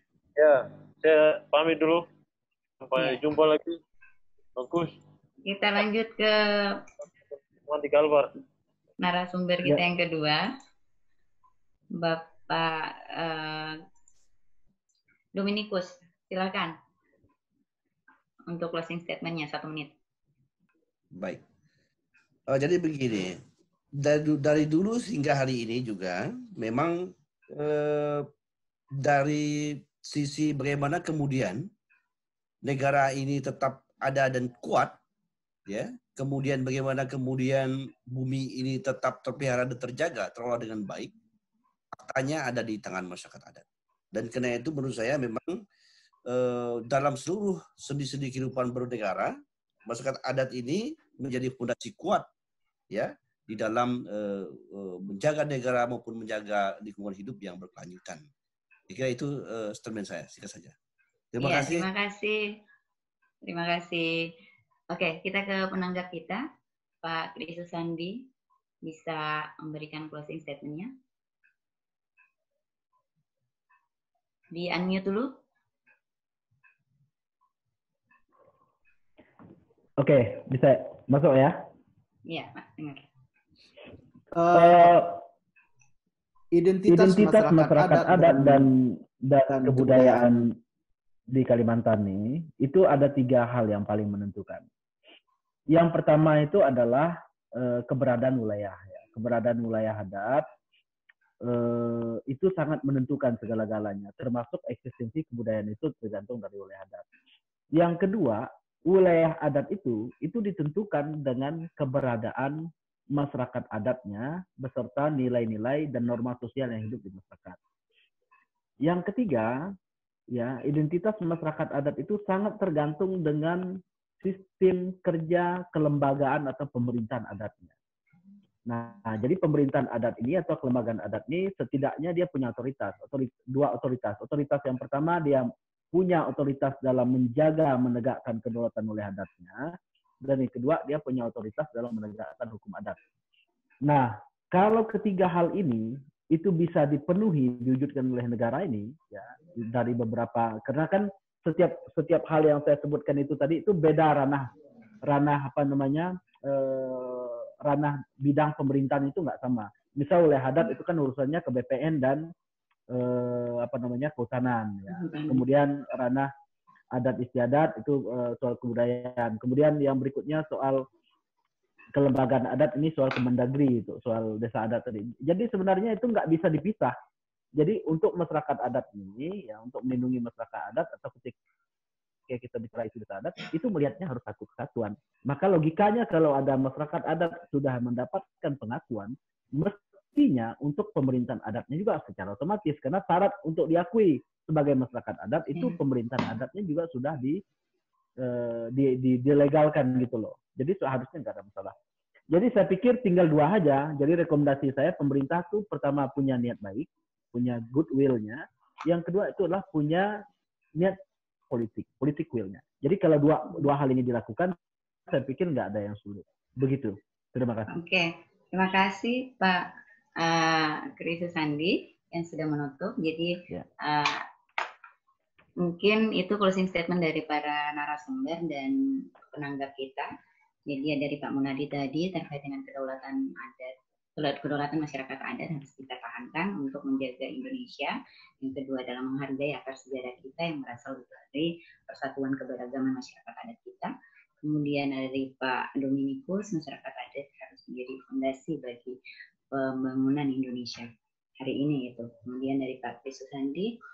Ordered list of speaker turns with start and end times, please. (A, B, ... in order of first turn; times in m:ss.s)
0:00.4-0:02.0 A
0:02.8-0:03.8 A
0:04.6-0:04.9 A
0:05.4-0:06.8 B
0:07.6-0:08.3 A
0:09.0-0:10.5 B
0:12.0-0:13.8 B
0:15.4-0:16.8 B
0:18.5-0:19.9 B
0:21.2-0:21.4 C
0:22.5-0:23.4 C
0:24.0-0:28.3 C
0:29.0-0:31.7 C
0:32.6-0:35.0 C
0:35.7-0:41.1 C
0:42.0-0:45.6 C
0:46.3-0:49.4 C
0:49.9-0:52.3 C
0:52.9-0:58.3 C
0:58.9-1:00.7 C
1:01.3-1:01.9 C
1:01.4-1:02.5 B
1:03.5-1:04.3 B
1:04.9-1:06.4 B
1:07.0-1:08.3 B
1:08.8-1:10.9 B
1:14.5-1:15.3 B
1:20.0-1:21.6 D
1:22.3-1:23.1 B
1:24.3-1:25.0 E
1:24.5-1:25.2 D
1:26.6-1:28.7 E
1:26.9-1:30.5 D
1:29.5-1:30.3 E
1:31.3-1:34.6 D
1:35.7-1:40.5 D
1:41.4-1:47.0 D
1:47.8-1:57.6 D
1:58.8-1:59.6 D
2:00.3-2:03.6 D
2:04.2-2:07.7 D
2:08.7-2:23.0 D
2:23.8-2:34.5 D
2:35.0-2:42.3 D
2:42.9-2:46.3 D
2:44.9-2:45.4 B
2:46.9-2:50.9 D
2:52.0-2:57.0 D
2:57.6-3:01.4 D
3:02.3-3:17.4 D
3:18.2-3:21.8 D
3:22.3-3:30.2 D
3:31.5-3:34.6 D
3:35.1-3:37.7 D
3:37.7-3:44.2 B
3:45.6-3:50.1 B
3:50.7-4:03.9 B
4:04.4-4:09.0 B
4:09.5-4:13.8 B